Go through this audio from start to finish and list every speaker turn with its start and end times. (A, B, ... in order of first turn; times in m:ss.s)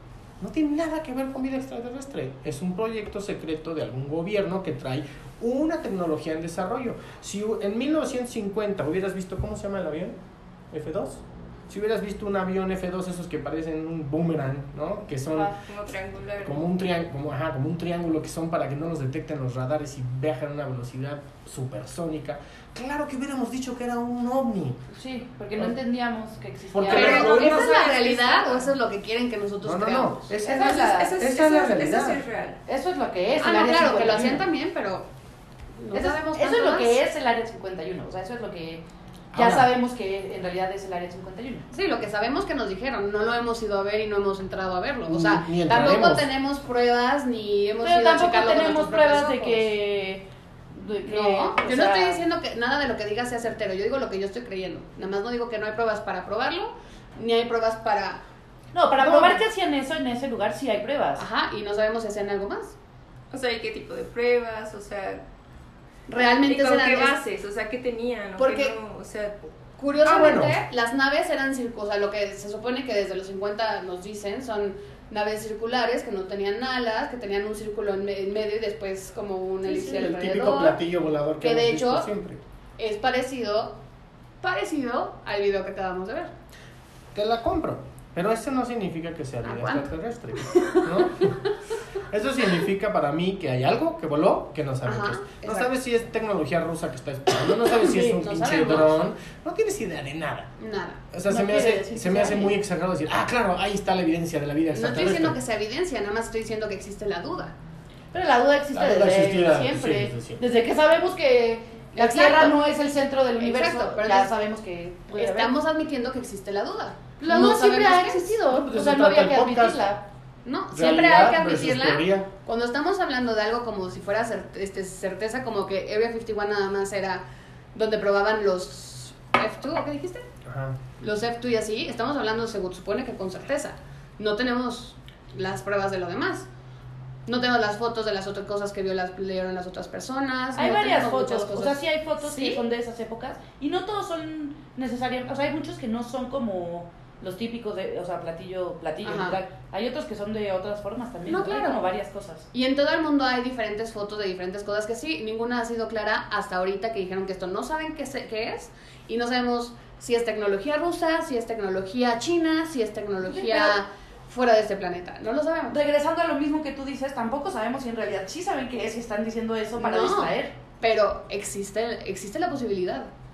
0:00.4-0:10.2 A
0:10.7-0:15.6 A
0:15.3-0:16.6 B
0:16.4-0:24.8 A
0:24.9-0:27.6 C
0:26.7-0:27.8 A
0:26.9-0:28.7 B
0:26.9-0:30.3 D
0:29.6-0:32.2 A
0:30.4-0:31.1 C
0:30.4-0:32.6 B
0:32.7-0:34.4 C
0:33.4-0:35.1 D
0:35.8-0:37.0 D
0:35.9-0:38.8 C
0:39.3-0:39.7 A
0:39.3-0:41.7 C
0:41.7-0:49.7 D
0:45.1-0:46.2 A
0:47.8-0:52.2 C
0:51.0-0:58.2 D
0:58.7-1:01.2 C
0:59.0-0:59.4 D
1:01.2-1:02.7 D
1:03.3-1:05.2 B
1:06.1-1:07.2 D
1:06.2-1:09.4 B
1:08.4-1:08.7 D
1:09.8-1:20.8 D
1:10.0-1:10.6 A
1:19.6-1:22.4 A
1:21.4-1:22.1 D
1:22.8-1:23.8 D
1:24.4-1:26.3 D
1:27.1-1:31.4 A
1:29.4-1:29.8 D
1:30.5-1:31.3 D
1:32.1-1:40.5 A
1:34.8-1:35.7 D
1:37.4-1:39.0 D
1:40.6-1:41.0 D
1:41.1-1:45.4 A
1:41.3-1:42.6 C
1:44.7-1:47.5 D
1:48.1-1:55.5 C
1:48.7-1:50.4 A
1:51.9-1:52.6 D
1:53.4-1:54.3 D
1:55.1-1:58.4 D
1:57.2-2:00.0 C
1:58.5-1:59.8 A
2:00.4-2:07.2 D
2:00.7-2:02.3 A
2:07.7-2:10.2 D
2:10.4-2:10.8 A
2:11.0-2:16.5 D
2:17.2-2:22.6 D
2:20.5-2:32.5 C
2:29.0-2:29.4 D
2:31.3-2:31.8 D
2:32.5-2:45.8 D
2:43.2-2:43.8 C
2:45.7-2:50.5 C
2:49.8-2:53.1 D